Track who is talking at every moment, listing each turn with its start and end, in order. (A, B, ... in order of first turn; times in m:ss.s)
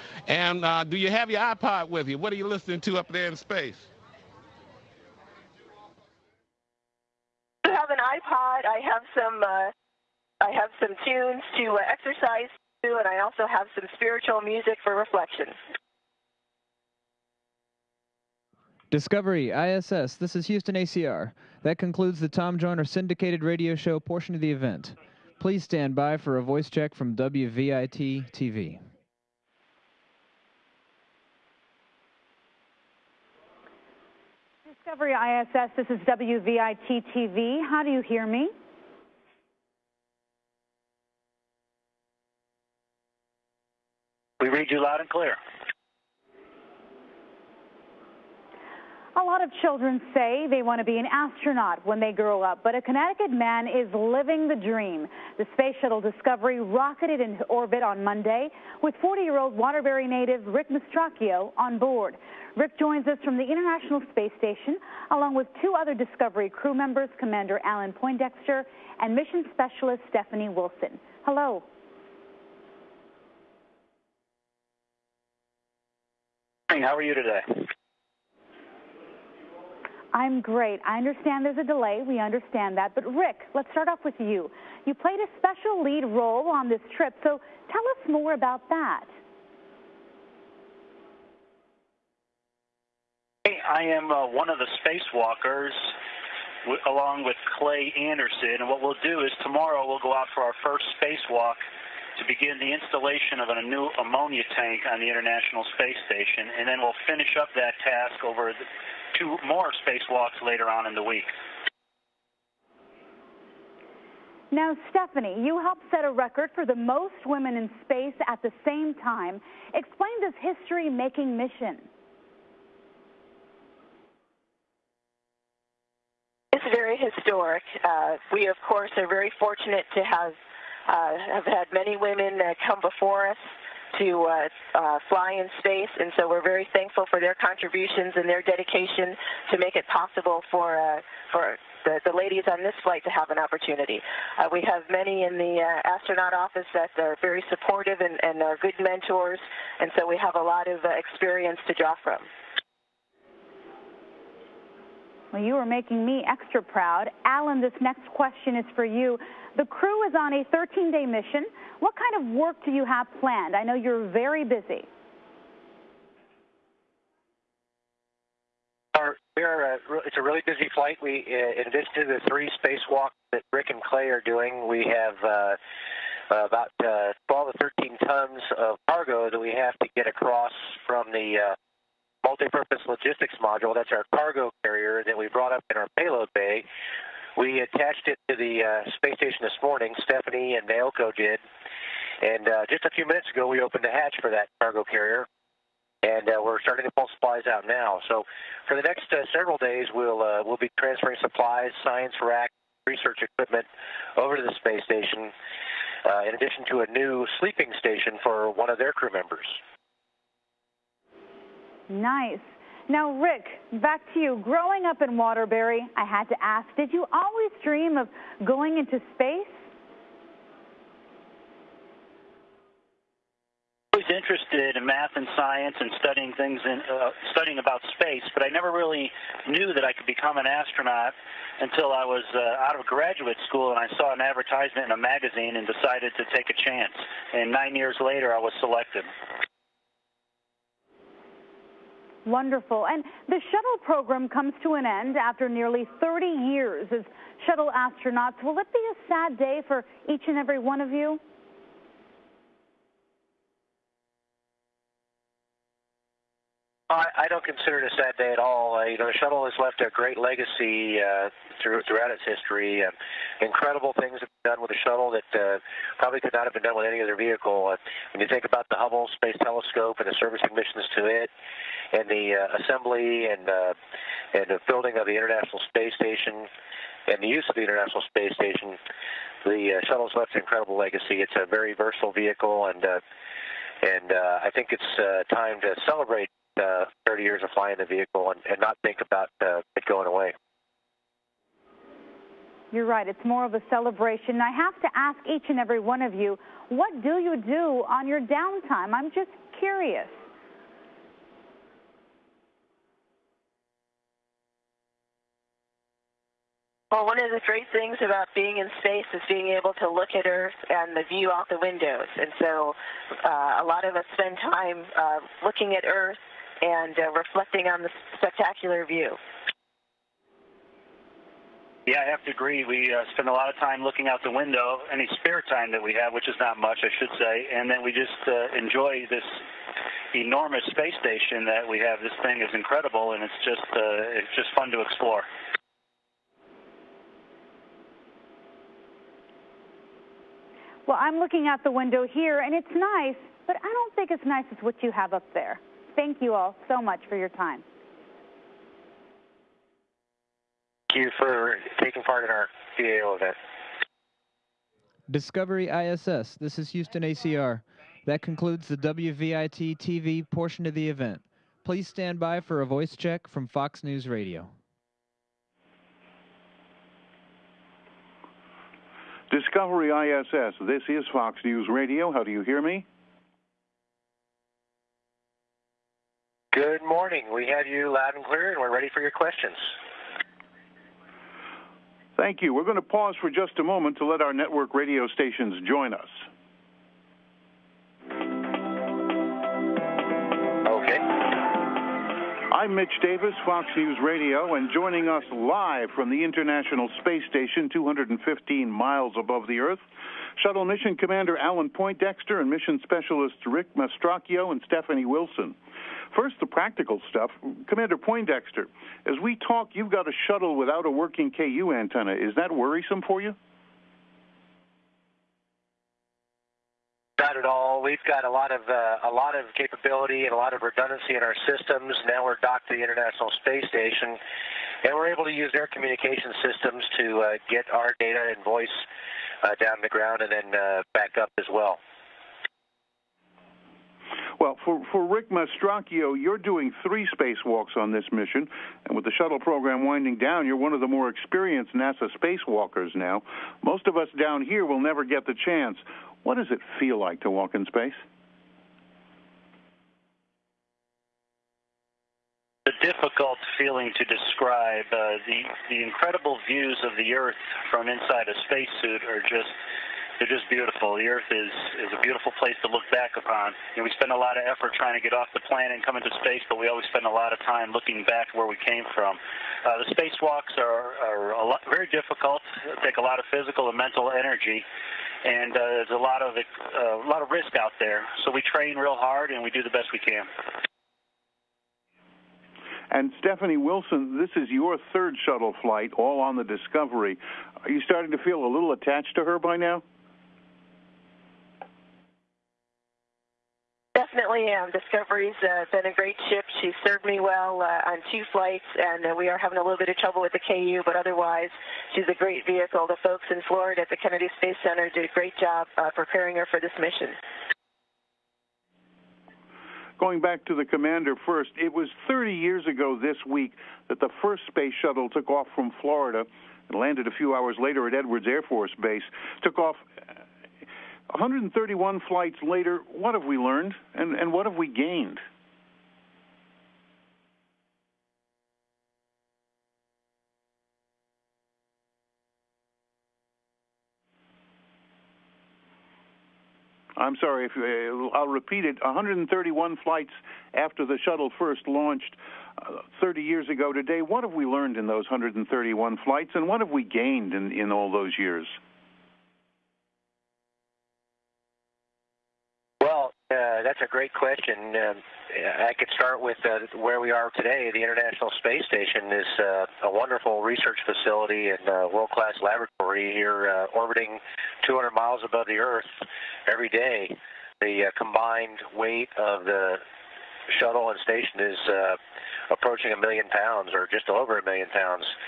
0:00.3-0:03.9 A
0:07.6-0:09.7 B
0:10.4-0:15.6 B
0:18.9-0:28.8 C
0:34.7-0:38.5 D
0:44.4-0:45.4 E
0:49.2-1:11.6 D
1:16.7-1:17.7 E
1:20.1-1:29.1 D
1:33.4-1:35.8 E
1:36.6-1:41.6 E
1:42.2-1:48.6 E
1:49.1-1:51.3 E
1:54.5-2:01.9 D
2:06.5-2:13.4 B
2:13.9-2:32.3 B
2:35.3-2:44.9 D
2:49.0-2:55.6 F
2:56.3-3:01.6 F
3:02.2-3:06.7 F
3:07.4-3:11.4 F
3:12.2-3:15.3 F
3:16.0-3:25.3 F
3:26.0-3:29.6 F
3:31.9-3:39.6 D
3:43.9-3:59.1 E
4:02.2-4:11.2 D
4:16.9-4:31.3 F
4:31.9-4:33.8 F
4:34.3-4:36.5 F
4:37.1-4:38.8 F
4:39.4-4:43.0 F
4:43.8-4:50.3 F
4:52.7-5:00.1 D
5:06.9-5:19.2 B
5:21.9-5:29.3 E
5:30.1-5:35.2 E
5:40.9-5:47.6 D
5:50.9-5:53.4 F
5:55.1-6:04.5 C
6:09.3-6:12.8 G
6:16.5-6:19.6 F
6:22.2-6:26.2 G
6:30.6-6:31.0 F
6:32.5-6:39.8 G
6:40.4-6:45.6 G
6:46.1-6:53.4 G
6:57.2-7:04.2 F
7:04.8-7:08.8 F
7:09.4-7:11.8 F
7:14.4-7:28.0 G
7:32.7-7:39.5 E
7:40.2-7:54.6 E
7:55.2-8:00.3 E
8:02.9-8:09.8 G
8:14.0-8:27.2 B
8:30.0-8:39.8 G
8:41.1-8:45.2 G
8:57.0-9:08.6 G
9:12.8-9:25.9 F
9:26.5-9:29.8 F
9:30.5-9:32.0 F
9:32.5-9:35.1 F